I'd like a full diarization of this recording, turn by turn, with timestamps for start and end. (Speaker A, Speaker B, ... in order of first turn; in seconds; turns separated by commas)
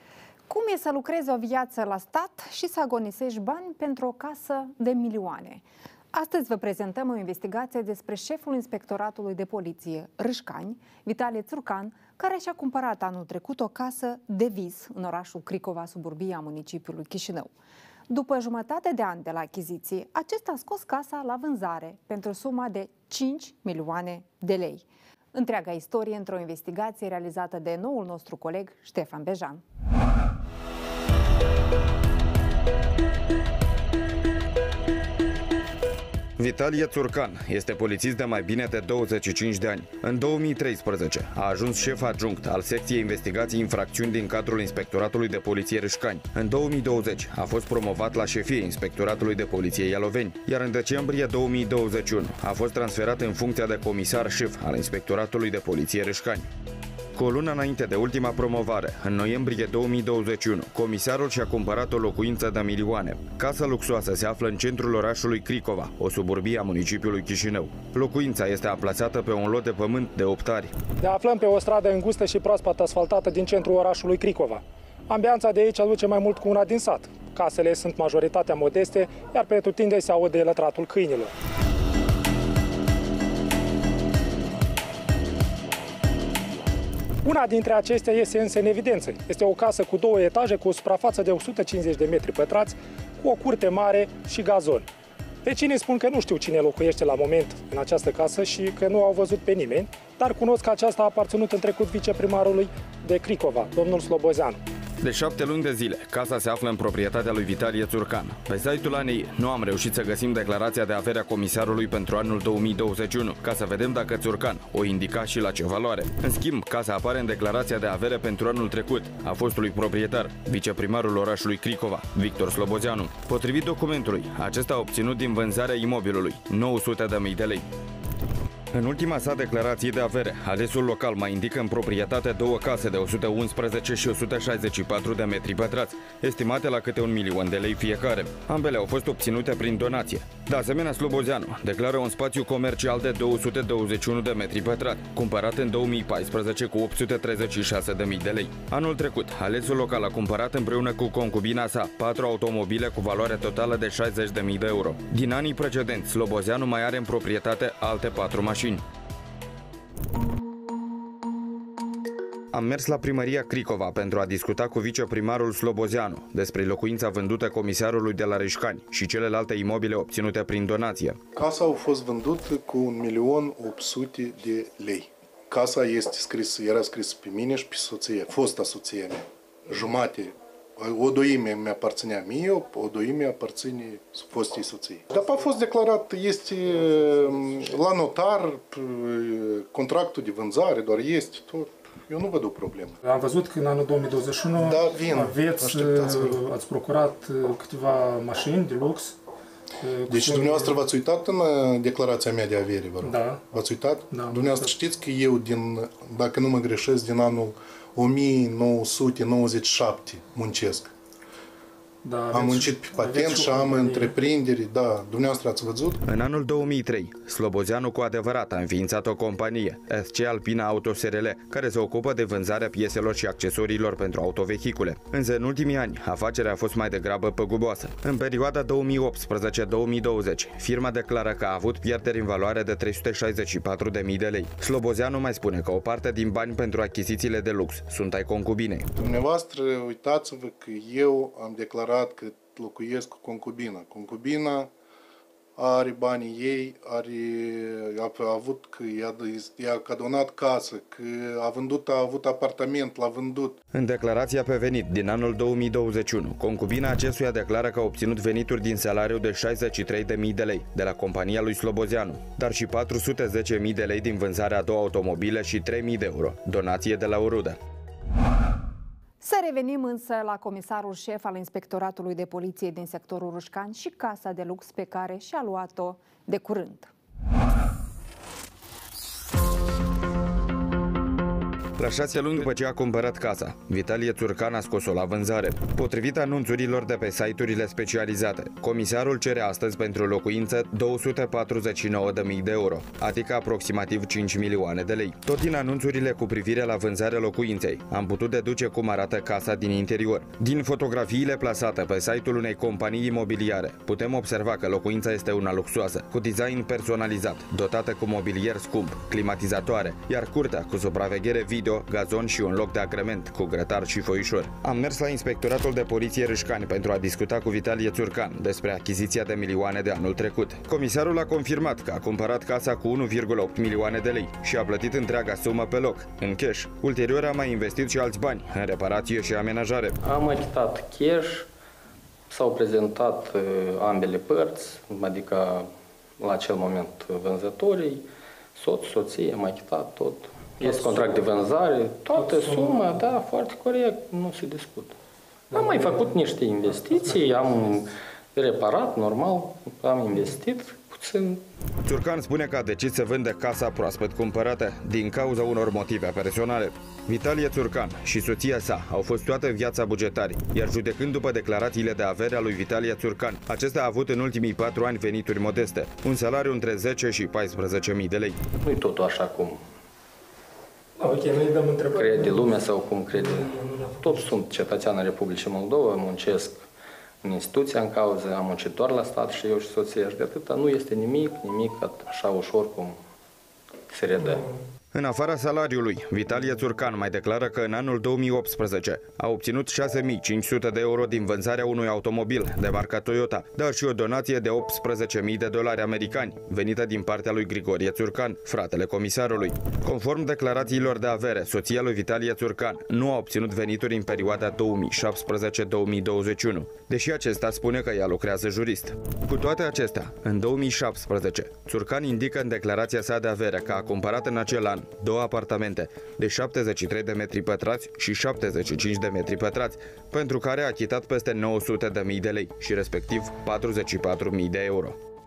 Speaker A: 0.5-17.5, Speaker A: 18.1-29.6, Speaker B: 36.4-56.5, Speaker B: 57.1-70.8, Speaker C: 71.0-81.3, Speaker C: 87.2-94.9, Speaker C: 95.5-104.6, Speaker B: 105.0-127.7, Speaker B: 128.7-158.8, Speaker B: 162.5-171.2, Speaker D: 171.3-193.0, Speaker C: 193.0-199.2, Speaker D: 194.6-196.4, Speaker C: 199.8-200.8, Speaker D: 200.1-210.9, Speaker C: 203.0-203.4, Speaker C: 204.1-204.7, Speaker C: 212.0-214.1, Speaker D: 212.3-216.0, Speaker B: 216.0-238.9, Speaker D: 239.0-244.7, Speaker D: 245.6-253.6, Speaker B: 253.7-267.6, Speaker A: 269.2-276.9, Speaker B: 281.8-330.0, Speaker E: 330.0-331.5, Speaker E: 332.3-345.0, Speaker C: 340.6-341.1, Speaker E: 345.5-351.4, Speaker C: 345.6-345.8, Speaker B: 351.9-368.4, Speaker E: 368.6-369.6, Speaker C: 371.0-372.4, Speaker E: 371.9-376.7, Speaker C: 373.4-374.1, Speaker E: 377.2-383.0, Speaker E: 383.9-384.5, Speaker B: 384.9-425.0